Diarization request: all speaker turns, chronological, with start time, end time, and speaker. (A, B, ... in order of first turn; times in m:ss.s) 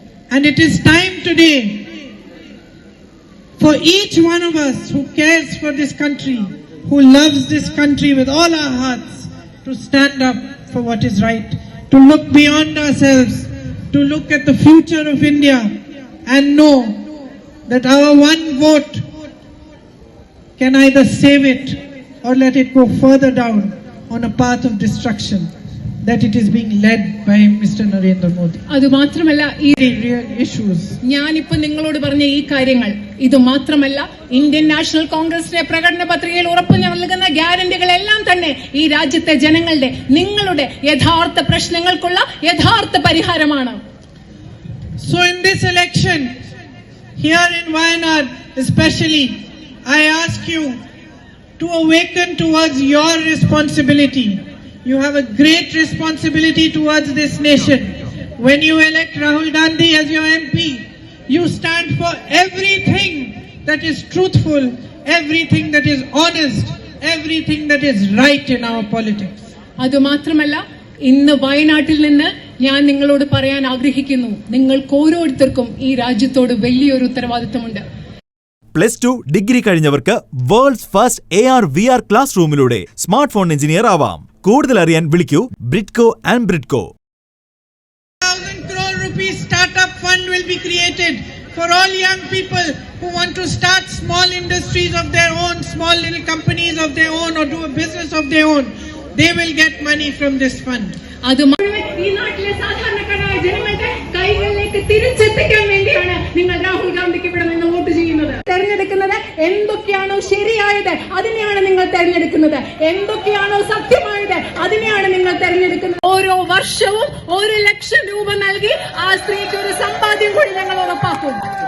0:00.3-0:01.9 A
0:03.6-0:17.0 A
0:17.7-0:19.0 A
0:20.6-0:25.5 A
0:26.0-0:28.6 A
0:28.7-0:29.8 B
0:29.8-0:31.0 A
0:31.0-0:43.8 B
0:45.0-0:46.3 A
0:47.2-0:50.8 A
0:51.6-1:09.4 A
1:09.8-1:17.8 B
1:18.7-1:26.9 C
1:28.2-1:41.0 A
1:41.2-2:01.4 B